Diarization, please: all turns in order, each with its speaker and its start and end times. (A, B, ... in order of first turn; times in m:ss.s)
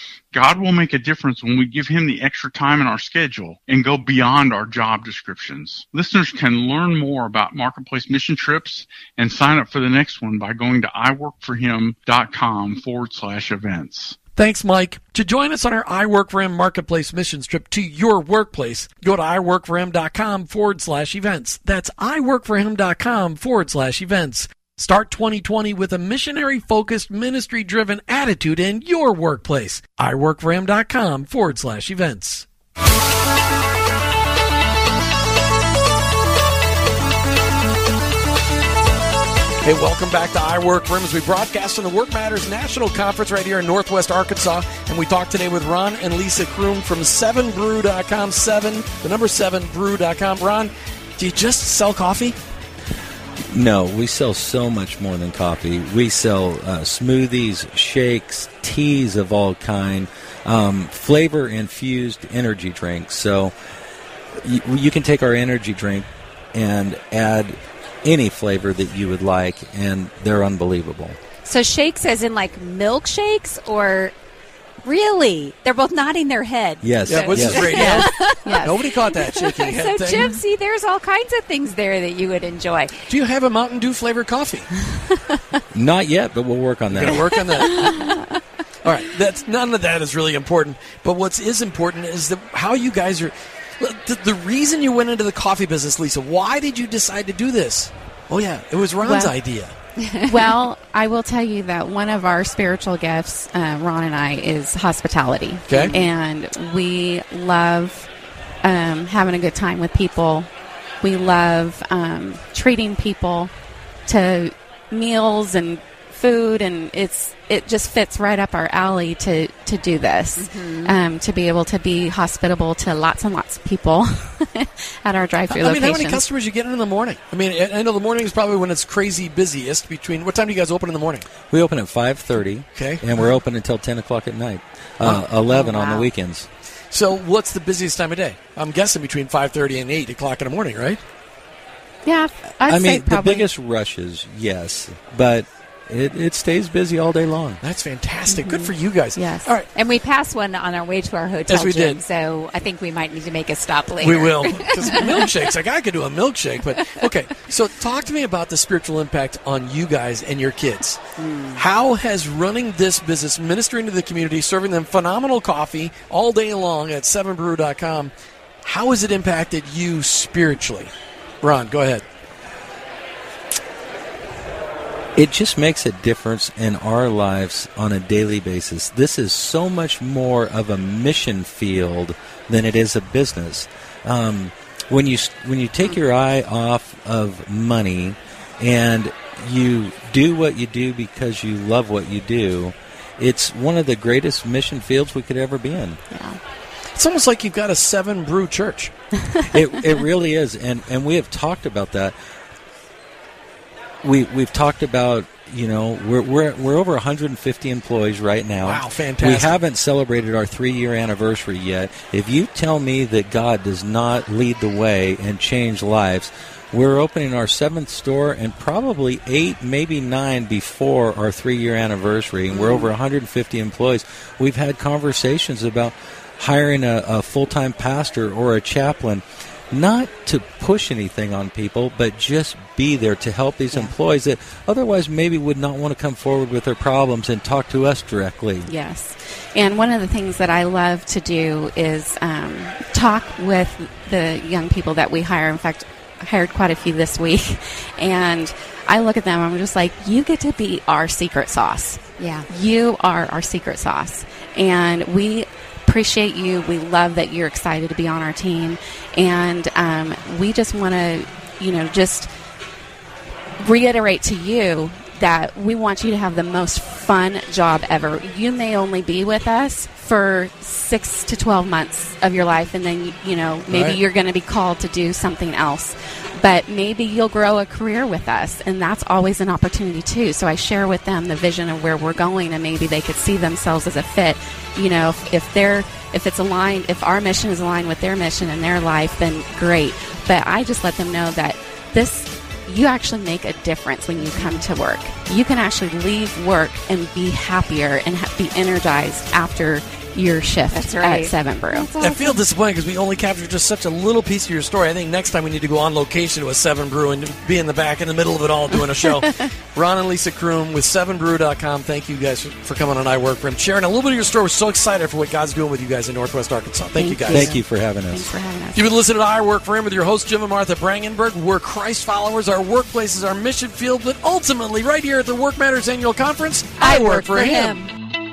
0:00.3-0:14.2 A
0:14.4-0:32.5 B
0:39.6-0:52.4 B
0:53.5-1:03.5 C
1:04.3-1:11.2 C
1:11.4-1:14.1 D
1:14.8-1:23.1 D
1:16.8-1:18.0 C
1:17.1-1:20.4 B
1:17.8-1:18.7 E
1:23.1-1:24.7 B
1:25.7-1:27.3 C
1:26.9-1:28.1 B
1:27.6-1:28.2 D
1:28.8-1:39.7 B
1:39.0-1:39.3 E
1:40.0-1:40.4 D
1:40.2-1:48.1 E
1:45.7-1:45.9 B
1:48.6-1:50.5 E
1:51.0-1:53.5 E
1:54.1-2:06.2 E
2:00.4-2:00.9 D
2:05.5-2:11.3 B
2:11.5-2:16.5 C
2:12.7-2:13.0 B
2:15.5-2:16.0 D
2:16.9-2:21.0 B
2:22.0-2:23.5 E
2:22.6-2:27.6 C
2:27.6-2:29.7 B
2:28.3-2:29.5 E
2:29.7-2:35.5 D
2:31.5-2:32.0 B
2:34.0-2:41.0 B
2:41.2-2:41.6 D
2:41.6-2:48.1 B
2:48.6-2:52.0 B
2:55.2-3:16.0 C
3:16.1-3:16.4 E
3:16.9-3:18.9 B
3:19.5-3:22.1 C
3:24.0-3:58.7 C
3:28.6-3:29.5 B
3:42.5-3:42.9 D
3:58.7-4:22.3 E
4:12.2-4:12.5 D
4:23.6-5:01.9 E
4:33.7-4:34.0 B
4:54.3-4:54.6 D
5:00.7-5:02.4 D
5:02.0-5:17.5 B
5:16.9-5:18.9 E
5:17.3-5:18.3 C
5:18.7-5:27.8 B
5:26.8-5:27.9 D